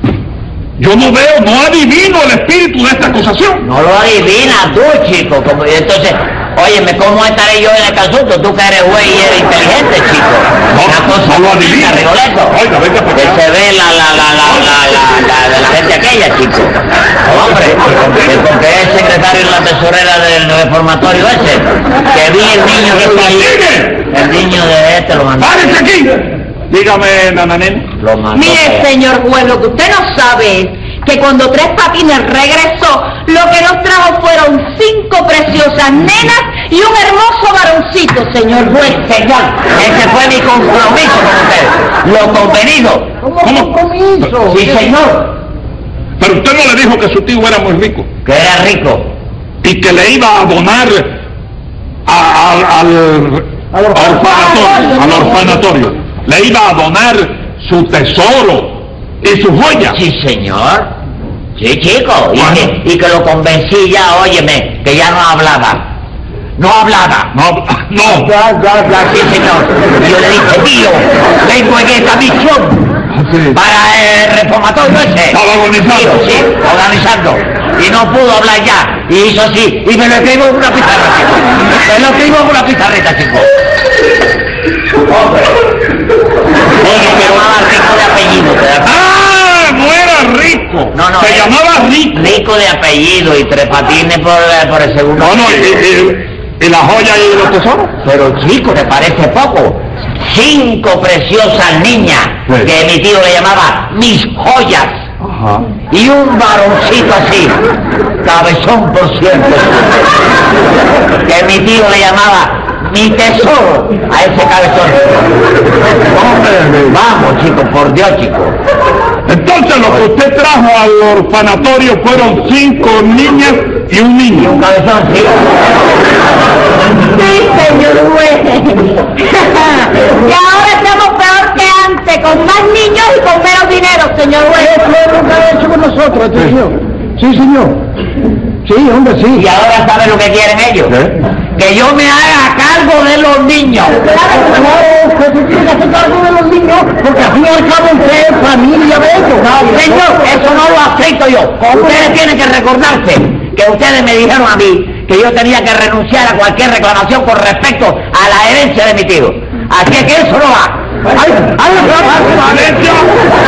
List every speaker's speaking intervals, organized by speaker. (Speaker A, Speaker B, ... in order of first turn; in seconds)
Speaker A: 0.8-3.6, 10.7-13.4, 17.3-18.4, 22.7-24.1, 25.4-27.9, 43.4-43.7, 46.2-48.1, 49.6-51.2, 52.0-60.0, 62.4-62.7, 67.3-68.3, 73.1-73.6, 75.3-76.4, 87.1-87.4, 88.8-92.1, 95.2-97.9, 105.2-105.7, 116.1-116.9, 119.3-124.6, 162.0-163.1
Speaker B: 3.6-12.6, 13.1-23.5, 24.1-25.8, 28.0-28.9, 38.7-43.2, 44.5-45.4, 48.2-49.1, 59.8-60.9, 61.6-65.8, 66.6-67.3, 68.0-73.0, 73.5-83.5, 85.0-85.6, 86.8-88.9, 90.9-95.8, 98.0-105.0, 105.9-107.6, 108.2-110.2, 111.2-115.3, 116.9-118.6, 124.4-125.5, 139.3-141.0, 141.5-144.1, 149.6-160.8
Speaker C: 28.3-38.9, 54.7-55.3, 127.0-134.9
Speaker D: 43.2-45.0, 53.7-55.4, 134.6-137.8, 138.6-139.4, 144.1-150.3, 151.7-152.1, 161.1-162.8